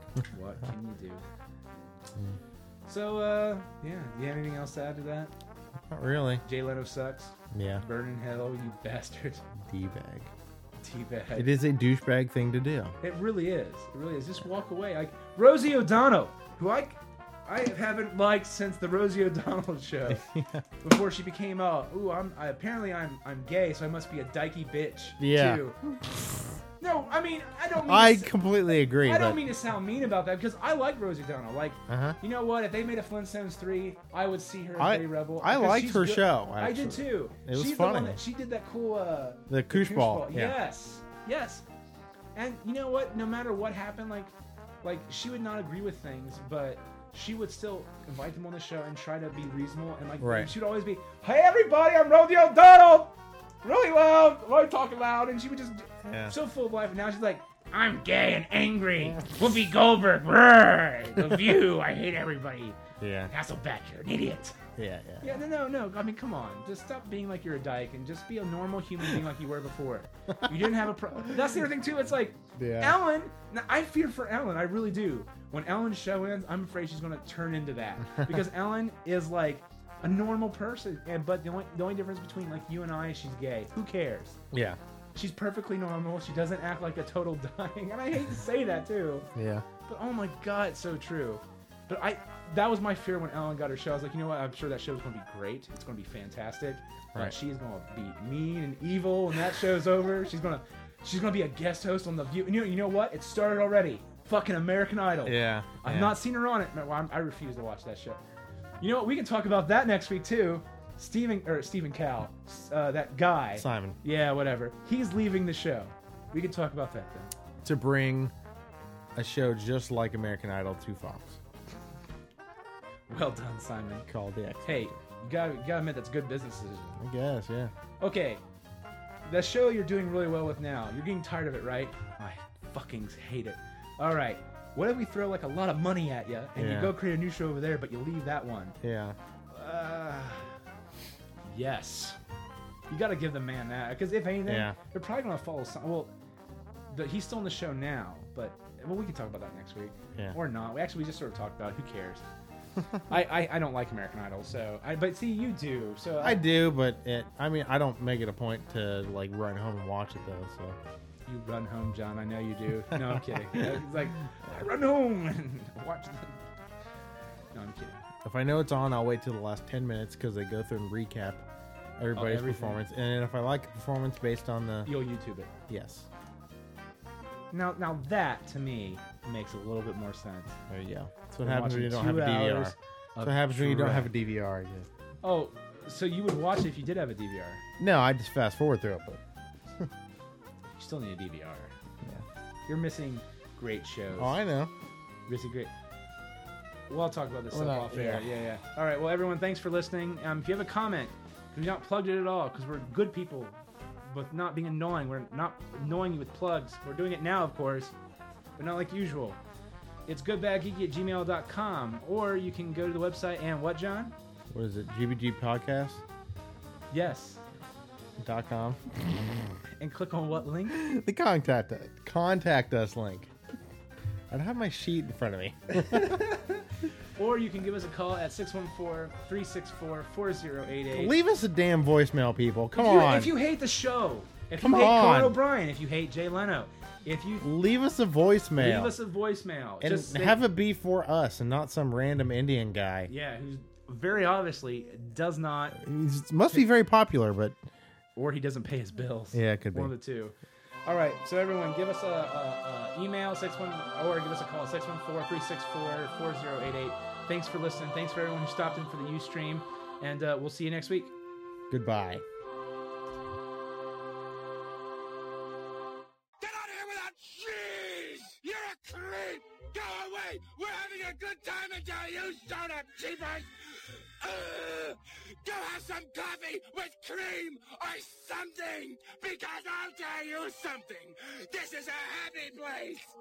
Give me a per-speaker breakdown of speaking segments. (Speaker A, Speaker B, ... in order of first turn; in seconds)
Speaker A: 0.2-1.2, 2.9-5.3, 6.4-9.4, 10.8-11.5, 13.0-20.2, 20.8-25.8, 26.8-28.3, 29.0-41.6, 42.3-64.6, 65.2-84.4, 85.1-89.3, 89.8-108.2, 108.8-117.3, 123.1-124.1, 124.6-127.0, 128.0-128.4, 129.2-138.8, 139.5-140.5, 141.4-142.2, 142.9-146.1, 146.9-152.2, 153.1-156.4, 161.2-166.5, 167.5-168.0, 172.1-172.8, 174.8-175.5, 177.5-180.6, 181.4-184.1, 185.2-187.6, 190.7-191.7, 192.7-194.3, 195.3-195.7, 196.9-207.9, 208.6-209.4, 210.1-214.1, 216.9-217.4, 219.8-220.8, 226.1-226.6, 227.2-231.1, 232.7-237.5, 238.6-240.4, 243.1-245.8, 248.2-261.1
Speaker B: 5.9-6.4, 7.5-7.8, 9.6-10.3, 11.3-13.0, 20.1-20.6, 25.2-26.4, 27.8-29.4, 31.9-32.2, 34.8-38.2, 39.5-40.5, 50.2-50.5, 56.0-56.3, 63.0-63.3, 64.8-65.4, 72.5-73.0, 84.5-84.8, 89.3-89.6, 105.2-106.1, 113.5-114.0, 117.6-118.3, 119.1-121.4, 124.1-125.0, 127.0-127.7, 136.6-136.9, 138.8-139.2, 144.5-144.8, 156.2-160.8, 168.2-171.4, 172.0-174.9, 175.7-176.1, 180.7-184.9, 187.8-189.2, 194.2-194.7, 197.5-198.2, 214.5-216.0, 218.2-218.8, 220.7-223.3, 224.3-226.2, 230.9-233.3, 234.6-235.4, 237.4-238.9, 239.8-243.1, 245.8-247.6, 249.3-249.9, 261.7-262.2
Speaker C: 266.4-283.1